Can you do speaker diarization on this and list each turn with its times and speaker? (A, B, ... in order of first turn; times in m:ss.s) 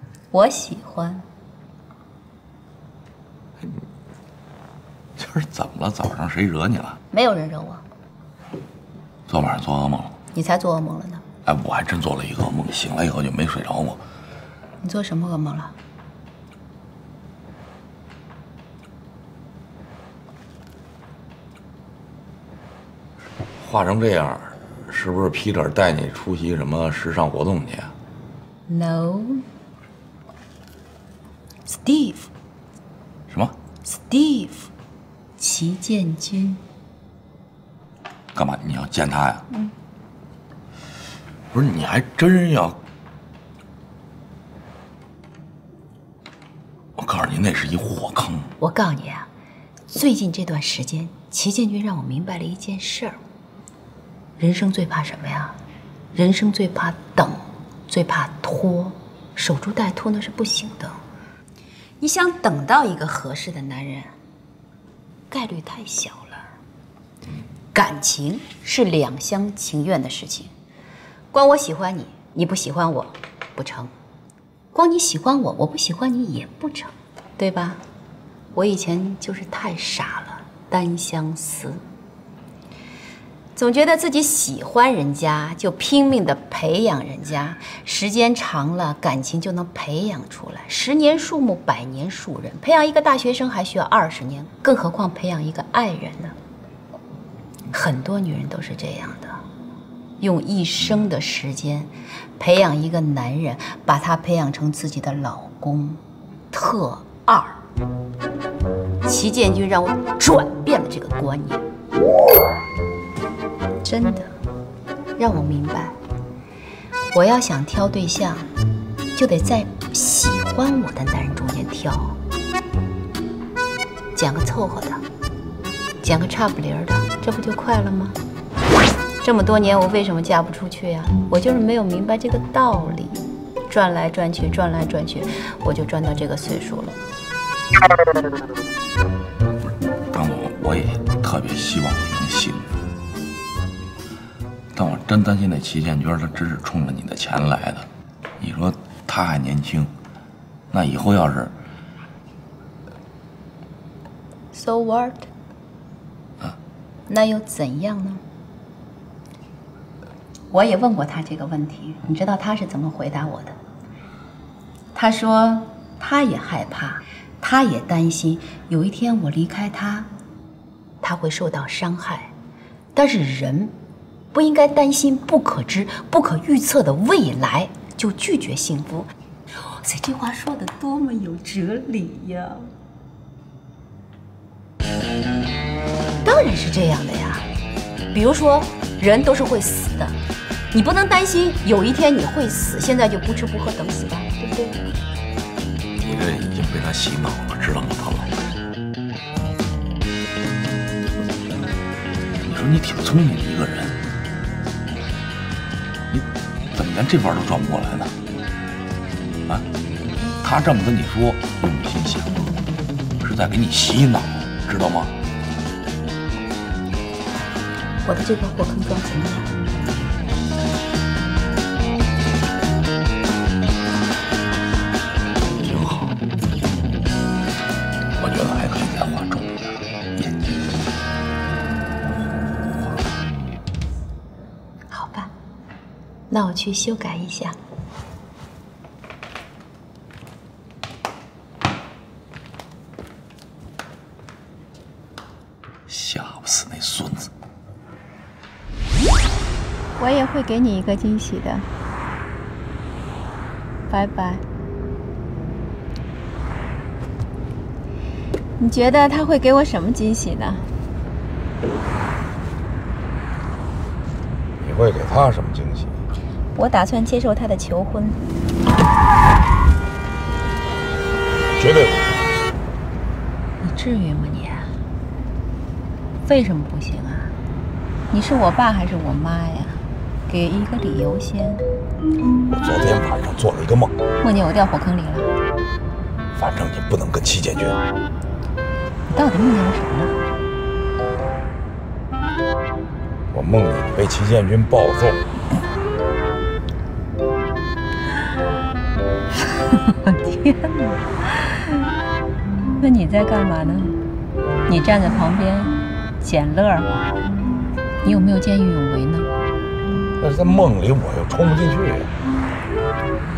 0:00.3-0:01.3 A
0:05.2-0:07.0 B
0:07.1-0:07.8 A
0:09.3-0:10.2 B
0:10.3-0:11.2 A
0:11.4-0:14.0 B
0:14.8-0:15.7 A
0:23.6-0:27.9 B
0:28.7-0:29.4 A
0:31.7-0:32.3 A
0:33.3-0:33.6 B
0:33.8-0:34.7 A
0:35.4-0:36.6 A
0:38.3-0:39.4 B
0:41.5-0:42.8 B
0:47.0-0:48.5 B
0:48.6-0:49.3 A
0:49.9-0:53.2 A
0:54.4-0:55.6 A
0:56.1-1:01.0 A
1:02.0-1:04.1 A
1:05.3-1:06.5 A
1:07.7-1:10.5 A
1:11.3-1:13.9 A
1:14.7-1:17.8 A
1:18.5-1:21.8 A
1:23.6-1:36.4 A
1:37.7-1:39.4 A
1:40.2-1:47.6 A
1:49.0-1:51.6 A
1:53.8-1:54.3 A
1:55.2-1:56.0 A
1:57.1-1:58.5 A
1:59.1-2:02.2 A
2:04.2-2:05.0 A
2:06.0-2:08.2 A
2:09.2-2:17.0 A
2:20.1-2:22.8 B
2:24.7-2:27.9 B
2:28.4-2:29.9 B
2:30.7-2:31.5 B
2:34.5-2:35.3 A
2:37.1-2:38.2 A
2:40.5-2:43.6 A
2:44.9-2:50.1 A
2:51.0-2:52.3 A
2:53.0-2:53.8 A
2:54.3-2:59.1 A
2:59.7-3:02.7 A
3:06.2-3:07.5 A
3:08.1-3:10.2 A
3:10.7-3:14.8 A
3:16.0-3:18.4 B
3:22.4-3:24.0 B
3:26.1-3:28.2 B
3:30.4-3:32.6 B
3:33.2-3:35.1 B
3:38.0-3:39.5 A
3:45.6-3:46.2 B
3:48.2-3:50.6 B
3:54.9-3:55.3 A
3:56.3-3:57.6 A
4:05.9-4:07.3 B
4:10.0-4:11.7 A
4:13.9-4:14.4 A
4:18.6-4:20.7 A
4:24.6-4:26.0 B
4:26.6-4:28.2 A
4:31.6-4:32.2 B
4:33.6-4:34.7 A
4:36.2-4:37.4 A
4:38.1-4:41.6 A
4:42.5-4:43.9 B
4:44.2-4:45.3 A
4:46.4-4:47.8 B
4:49.1-4:50.2 A
4:53.3-4:55.3 B
4:59.7-5:01.7 A
5:02.8-5:04.0 A
5:04.7-5:06.9 A
5:08.0-5:09.3 A
5:10.2-5:12.1 B